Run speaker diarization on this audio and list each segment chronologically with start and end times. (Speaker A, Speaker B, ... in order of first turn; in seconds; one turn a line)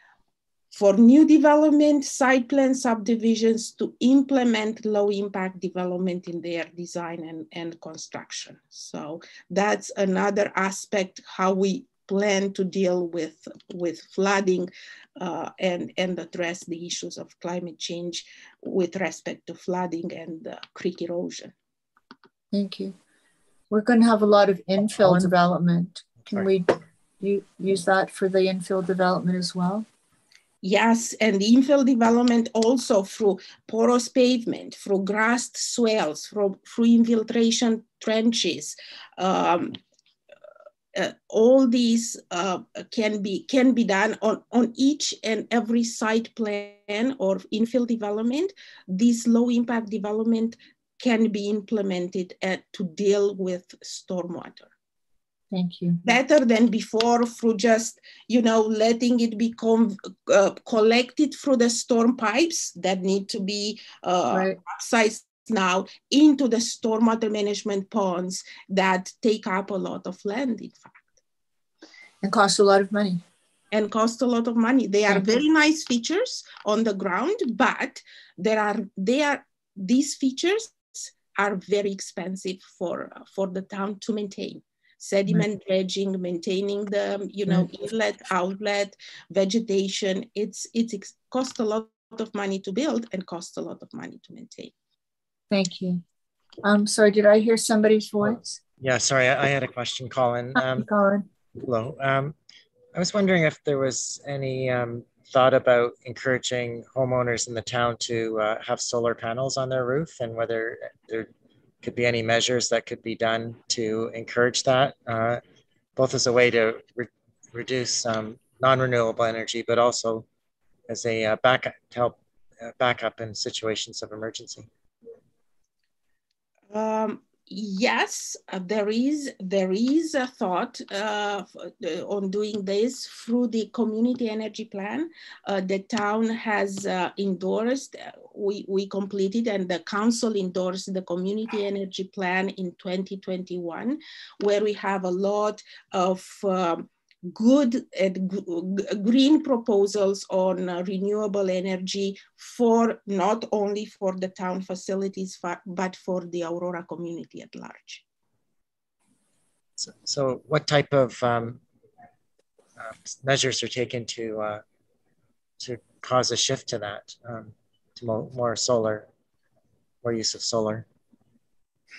Speaker A: 0.7-21.5
Speaker B: 22.5-22.9
Speaker B: 23.7-29.9
Speaker C: 25.0-25.3
Speaker A: 30.6-39.8
Speaker A: 40.9-54.7
Speaker B: 55.5-56.1
Speaker A: 56.0-71.1
Speaker B: 64.3-64.5
Speaker B: 72.2-73.2
Speaker A: 73.7-94.7
Speaker B: 75.1-75.4
Speaker B: 95.5-96.0
Speaker B: 96.6-98.6
Speaker C: 98.2-100.9
Speaker B: 100.6-101.3
Speaker C: 101.6-102.3
Speaker C: 102.9-111.3
Speaker C: 111.8-115.4
Speaker C: 116.0-120.2
Speaker C: 120.9-124.7
Speaker A: 126.7-158.0
Speaker C: 159.8-161.6
Speaker C: 162.8-164.6
Speaker C: 165.6-169.1
Speaker C: 170.0-170.8